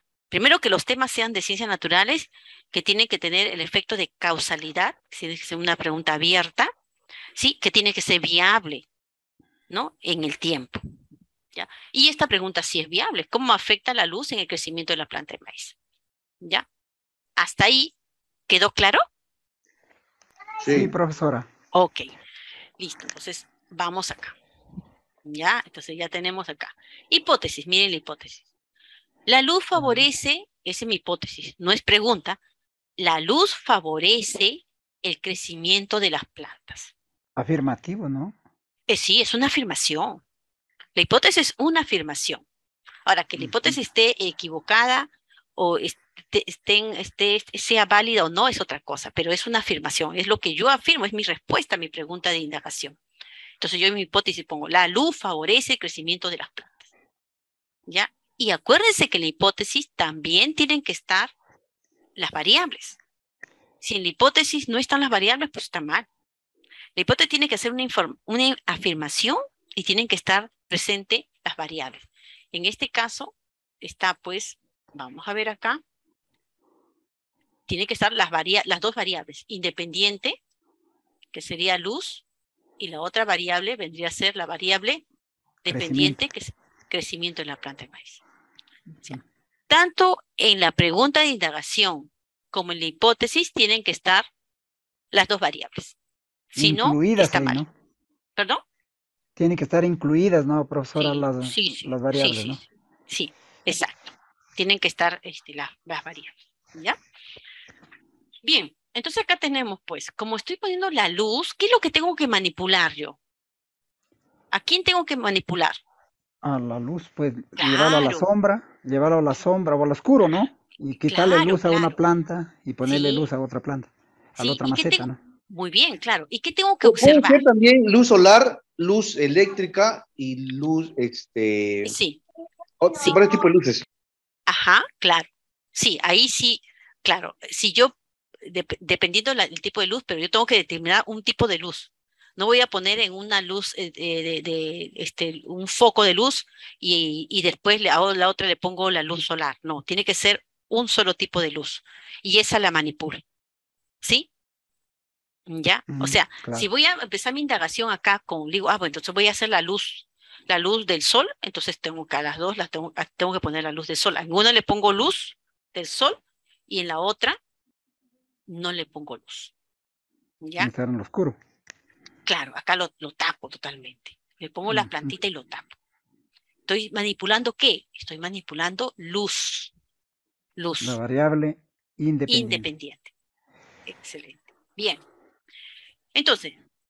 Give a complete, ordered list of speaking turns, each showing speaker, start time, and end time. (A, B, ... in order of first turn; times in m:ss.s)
0:00.3-0:06.7 A
0:07.4-0:08.8 A
0:09.7-0:10.8 A
0:11.5-0:15.8 A
0:17.4-0:17.9 A
0:18.5-0:19.0 A
0:20.6-0:20.9 B
0:20.7-0:21.5 C
0:21.7-0:22.1 A
0:22.8-0:24.4 A
0:25.2-0:28.5 A
0:29.3-0:32.4 A
0:29.8-0:30.0 C
0:33.0-0:36.9 A
0:37.4-0:38.4 C
0:38.9-0:40.2 A
0:41.0-0:42.4 A
0:43.1-0:53.0 A
0:43.4-0:43.8 C
0:53.6-0:56.8 A
0:57.9-1:01.3 A
1:02.2-1:03.0 A
1:03.8-1:06.1 A
1:07.0-1:15.8 A
1:17.7-1:20.4 A
1:21.3-1:22.2 A
1:22.8-1:25.0 A
1:25.6-1:28.2 A
1:25.7-1:26.2 C
1:29.0-1:34.3 A
1:35.1-1:36.0 A
1:36.6-1:37.6 A
1:36.6-1:37.7 C
1:38.4-1:38.6 A
1:39.4-1:42.6 C
1:41.0-1:47.0 A
1:48.4-1:53.2 A
1:54.5-1:55.8 A
1:56.4-2:05.2 C
1:57.6-1:58.2 A
2:01.1-2:02.0 A
2:02.9-2:03.3 A
2:04.4-2:07.4 A
2:06.8-2:12.0 B
2:11.8-2:12.2 A
2:12.8-2:13.9 B
2:14.5-2:33.2 A
2:34.0-2:34.3 A
2:35.5-2:47.4 A
2:35.9-2:36.7 C
2:48.5-2:49.5 A
2:50.4-2:50.7 A
2:50.6-2:51.4 C
2:52.3-2:55.8 A
2:54.7-2:55.1 C
2:56.7-2:59.7 A
3:00.6-3:01.0 A
3:00.8-3:02.7 C
3:02.3-3:03.1 A
3:03.9-3:05.0 A
3:06.2-3:06.6 A